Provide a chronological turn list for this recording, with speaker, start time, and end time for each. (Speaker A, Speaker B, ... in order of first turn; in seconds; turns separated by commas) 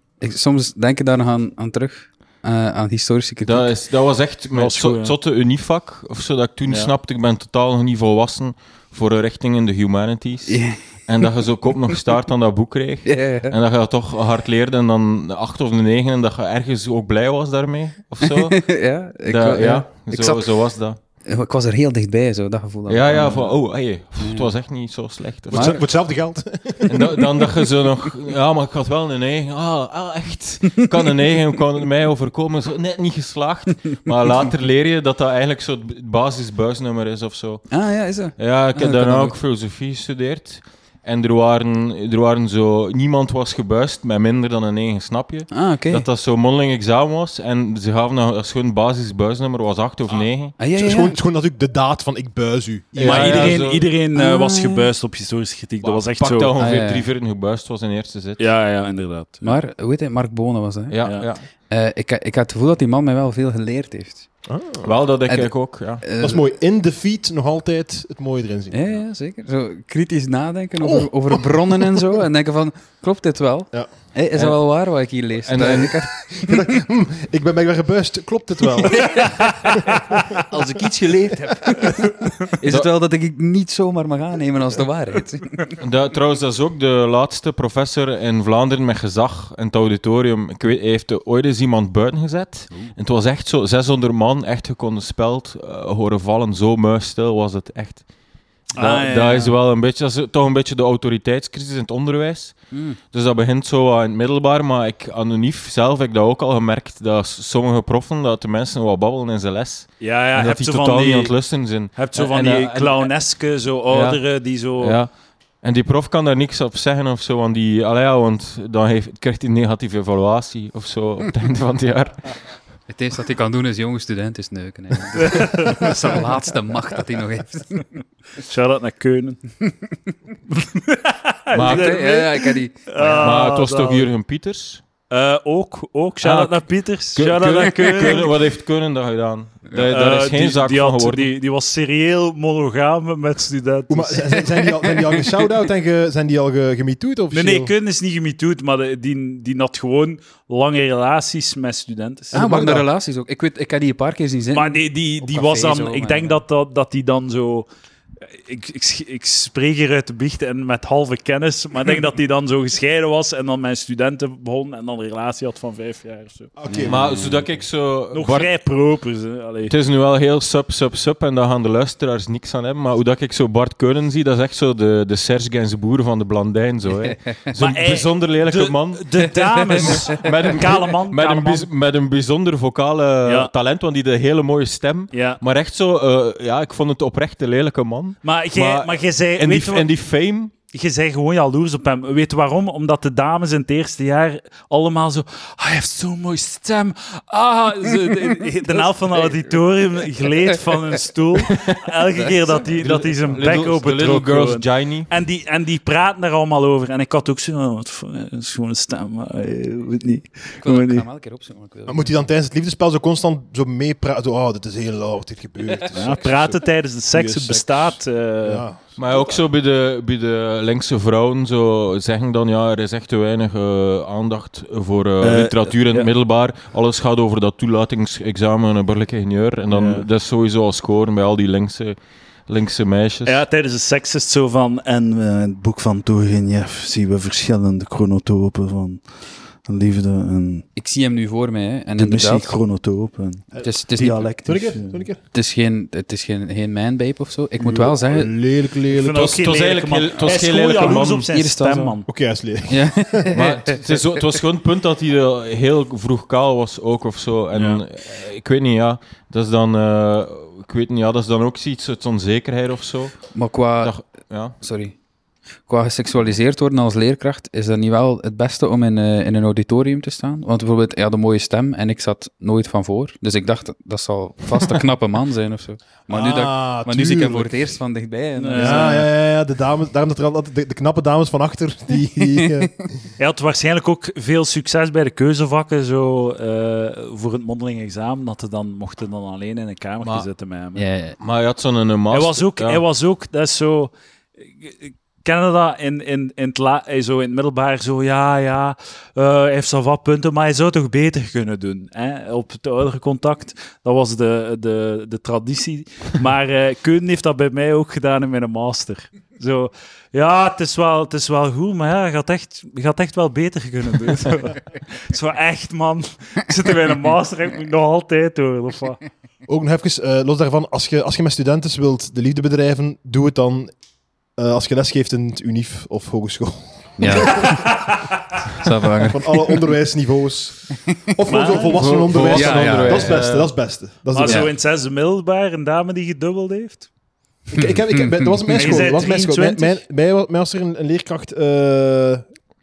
Speaker A: 0.2-3.7, Speaker B: 3.4-18.7, Speaker C: 4.5-5.2, Speaker C: 6.7-6.9, Speaker A: 10.5-10.8, Speaker A: 13.1-13.6, Speaker A: 18.3-20.5, Speaker B: 19.2-21.0, Speaker A: 21.2-23.6, Speaker B: 22.9-25.9, Speaker A: 24.2-24.5, Speaker A: 25.5-25.9, Speaker D: 25.5-27.1, Speaker B: 26.9-37.8, Speaker A: 37.7-39.4, Speaker B: 38.4-50.6, Speaker A: 45.5-46.1, Speaker A: 50.6-51.1, Speaker D: 50.8-53.6, Speaker B: 53.0-53.9, Speaker C: 53.0-56.5, Speaker A: 54.1-54.9, Speaker B: 55.9-58.4, Speaker A: 56.6-57.1, Speaker C: 58.4-59.6, Speaker A: 59.4-61.0, Speaker B: 60.9-61.5, Speaker C: 61.0-61.3, Speaker A: 61.7-64.3, Speaker D: 64.5-64.9, Speaker B: 64.8-66.0, Speaker A: 65.3-66.5, Speaker D: 66.2-68.9, Speaker A: 68.7-76.7, Speaker D: 70.8-72.2, Speaker B: 74.3-74.6, Speaker B: 75.4-76.0, Speaker D: 75.6-80.2, Speaker A: 79.0-79.8, Speaker C: 79.2-79.8, Speaker A: 80.4-85.8, Speaker B: 85.8-98.0, Speaker B: 98.7-113.1, Speaker C: 98.8-99.6, Speaker A: 102.7-103.0, Speaker C: 110.0-111.3, Speaker C: 111.9-115.0, Speaker B: 113.9-115.1, Speaker B: 115.6-122.4, Speaker A: 122.9-128.0, Speaker C: 125.2-126.3, Speaker C: 128.4-129.4, Speaker C: 130.5-134.1, Speaker B: 131.5-132.0, Speaker A: 131.6-133.3, Speaker B: 133.1-134.8, Speaker C: 135.1-138.4, Speaker B: 136.2-141.3, Speaker C: 139.9-144.4, Speaker D: 143.9-147.7, Speaker A: 144.6-145.0, Speaker C: 147.3-152.7, Speaker D: 152.3-152.9, Speaker A: 152.3-156.4, Speaker C: 154.5-157.7, Speaker C: 158.3-166.5, Speaker D: 166.6-167.1, Speaker A: 166.7-167.2, Speaker B: 166.8-168.5, Speaker C: 168.1-169.7, Speaker B: 169.7-190.5, Speaker C: 177.6-181.7, Speaker C: 183.2-183.5, Speaker C: 185.1-185.4, Speaker C: 188.2-189.9, Speaker C: 190.7-211.1, Speaker B: 202.8-205.1, Speaker A: 210.6-212.2, Speaker D: 211.9-219.3, Speaker A: 215.8-216.1, Speaker C: 215.9-218.7, Speaker B: 219.0-232.0, Speaker C: 225.2-226.1, Speaker C: 229.7-230.1, Speaker B: 232.5-233.4, Speaker C: 233.2-240.7, Speaker A: 240.8-242.6, Speaker C: 241.9-243.5, Speaker D: 243.5-245.2, Speaker A: 243.6-244.6, Speaker C: 244.0-245.1, Speaker A: 245.3-248.3, Speaker D: 247.6-249.3, Speaker C: 248.9-252.1, Speaker B: 249.1-251.3, Speaker A: 250.8-252.0, Speaker D: 252.1-253.4, Speaker A: 252.7-254.0, Speaker B: 253.3-264.6, Speaker C: 257.5-257.8, Speaker A: 263.3-265.0, Speaker A: 265.7-279.1, Speaker D: 276.1-277.7, Speaker C: 278.4-279.1, Speaker D: 278.5-283.0, Speaker A: 282.4-282.7, Speaker C: 283.2-290.9, Speaker A: 290.8-291.2, Speaker B: 291.2-292.8, Speaker C: 292.1-293.9, Speaker C: 294.6-319.0, Speaker D: 319.5-323.7, Speaker D: 324.4-327.6, Speaker A: 327.0-329.6, Speaker D: 329.0-334.5, Speaker C: 331.3-331.9, Speaker B: 331.7-333.5, Speaker A: 332.3-333.3, Speaker C: 334.1-336.9, Speaker A: 334.2-334.5, Speaker D: 337.5-342.3, Speaker C: 338.5-339.8